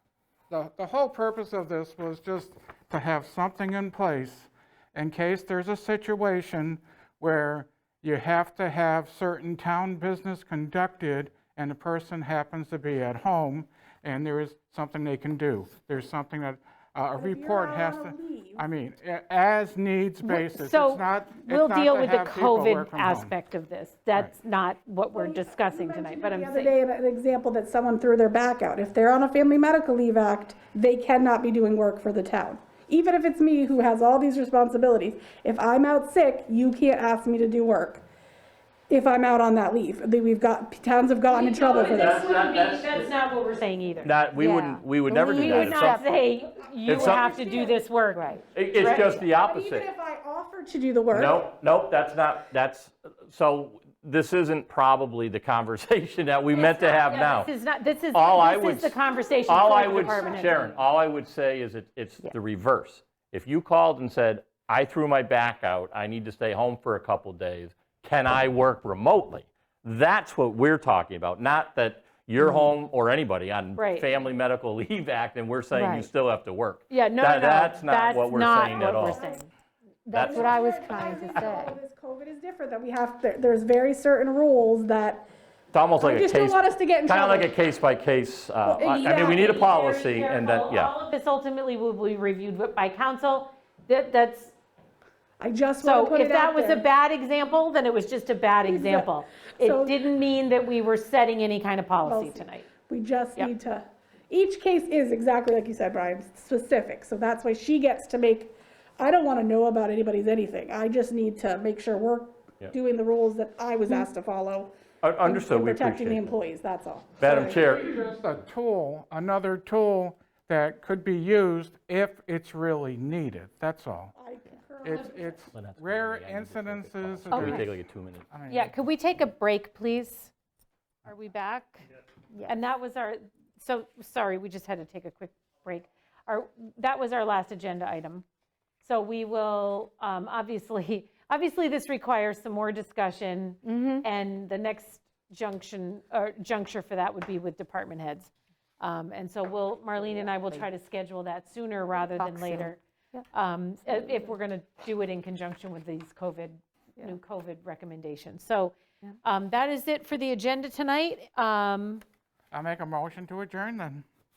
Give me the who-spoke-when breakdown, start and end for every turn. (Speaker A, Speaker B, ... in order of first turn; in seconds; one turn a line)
Speaker A: 0.5-23.3
Speaker B: 17.2-18.6
Speaker C: 20.2-26.7
Speaker B: 25.1-38.0
Speaker B: 38.9-42.4
Speaker C: 41.3-44.1
Speaker D: 41.8-43.1
Speaker D: 44.0-46.0
Speaker E: 44.4-46.1
Speaker C: 45.3-49.2
Speaker B: 46.8-47.8
Speaker D: 46.8-47.3
Speaker E: 48.1-48.4
Speaker D: 48.5-49.9
Speaker B: 49.1-51.4
Speaker D: 51.1-57.5
Speaker C: 56.5-60.7
Speaker D: 58.1-79.2
Speaker B: 59.1-60.7
Speaker C: 73.8-74.1
Speaker E: 75.7-76.0
Speaker C: 76.9-79.5
Speaker B: 78.5-79.4
Speaker E: 80.0-81.8
Speaker B: 80.1-85.2
Speaker D: 80.2-80.5
Speaker D: 85.7-90.9
Speaker B: 86.0-87.5
Speaker B: 88.6-89.7
Speaker C: 89.1-94.5
Speaker B: 95.4-96.8
Speaker C: 95.8-102.7
Speaker B: 98.6-99.1
Speaker B: 99.6-100.0
Speaker B: 102.0-117.8
Speaker D: 115.0-116.4
Speaker D: 117.2-117.9
Speaker A: 117.3-124.1
Speaker B: 124.2-125.5
Speaker A: 124.8-127.8
Speaker D: 125.5-128.3
Speaker C: 127.3-127.7
Speaker A: 128.3-128.7
Speaker C: 128.5-130.3
Speaker C: 131.0-131.8
Speaker E: 132.3-132.6
Speaker C: 132.4-138.2
Speaker C: 138.8-152.8
Speaker E: 143.6-144.0
Speaker E: 152.1-153.2
Speaker C: 153.3-162.0
Speaker A: 162.5-164.0